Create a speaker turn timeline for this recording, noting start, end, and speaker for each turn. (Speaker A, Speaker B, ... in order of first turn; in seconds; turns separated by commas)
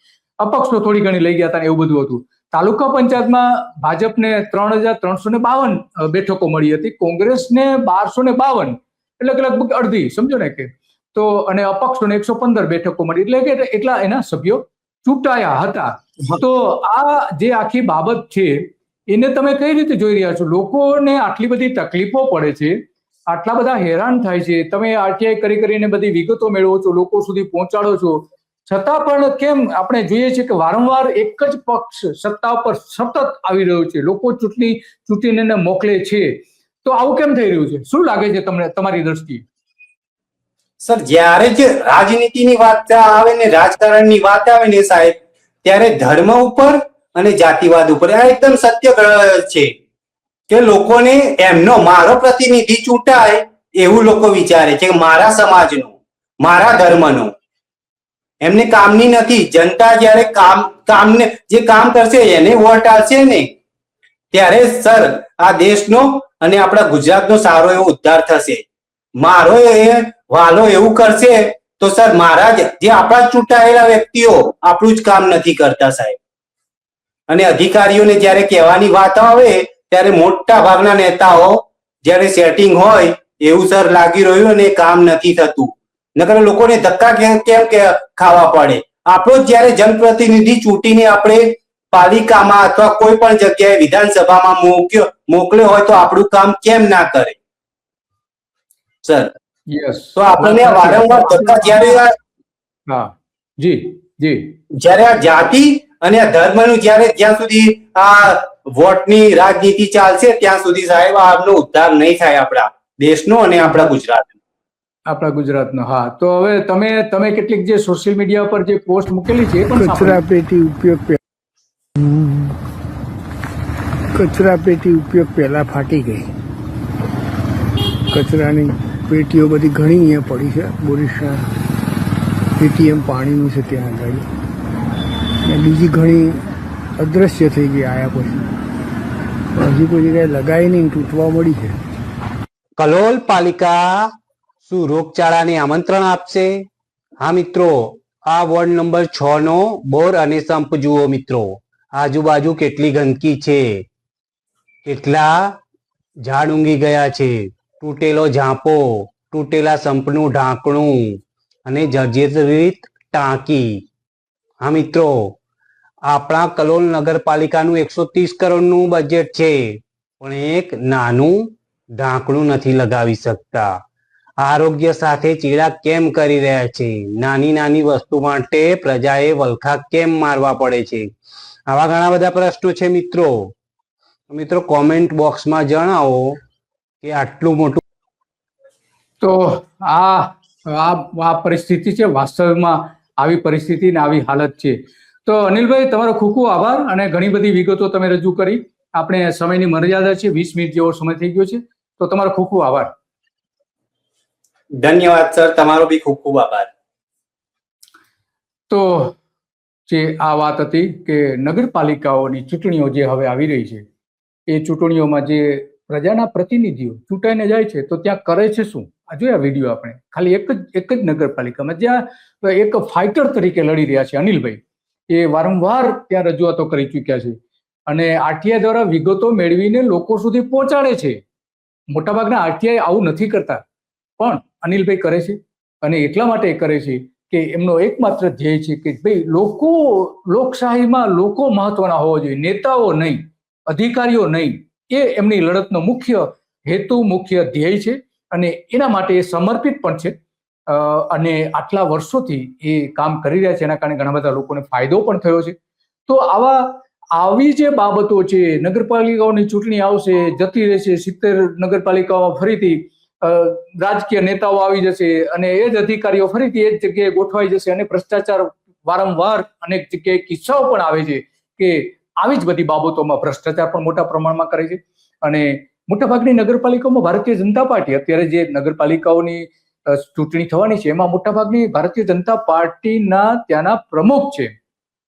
Speaker A: 0.4-39.4, Speaker B: 40.8-49.7, Speaker B: 50.5-57.3, Speaker B: 58.4-63.5, Speaker B: 64.3-68.7, Speaker B: 69.2-76.2, Speaker B: 77.3-97.4, Speaker B: 99.0-99.3, Speaker A: 99.7-102.0, Speaker B: 100.2-102.1, Speaker A: 102.9-104.5, Speaker B: 104.8-114.3, Speaker A: 113.6-113.9, Speaker A: 115.1-120.2, Speaker C: 119.8-121.2, Speaker C: 122.0-122.5, Speaker C: 124.1-126.3, Speaker C: 128.1-131.5, Speaker C: 132.6-134.2, Speaker C: 135.4-136.4, Speaker C: 137.0-138.5, Speaker C: 139.6-141.8, Speaker D: 142.8-144.1, Speaker D: 144.6-146.6, Speaker D: 147.2-153.8, Speaker D: 154.8-155.6, Speaker D: 156.2-163.8, Speaker D: 164.6-165.4, Speaker D: 166.1-173.8, Speaker D: 174.4-181.1, Speaker D: 181.7-183.5, Speaker D: 184.3-186.3, Speaker D: 187.0-187.8, Speaker A: 189.2-202.9, Speaker B: 204.8-206.7, Speaker A: 208.7-209.2, Speaker A: 209.9-213.8, Speaker A: 214.5-231.2, Speaker A: 231.9-233.6, Speaker A: 234.2-250.1, Speaker A: 250.7-255.6, Speaker A: 256.1-284.5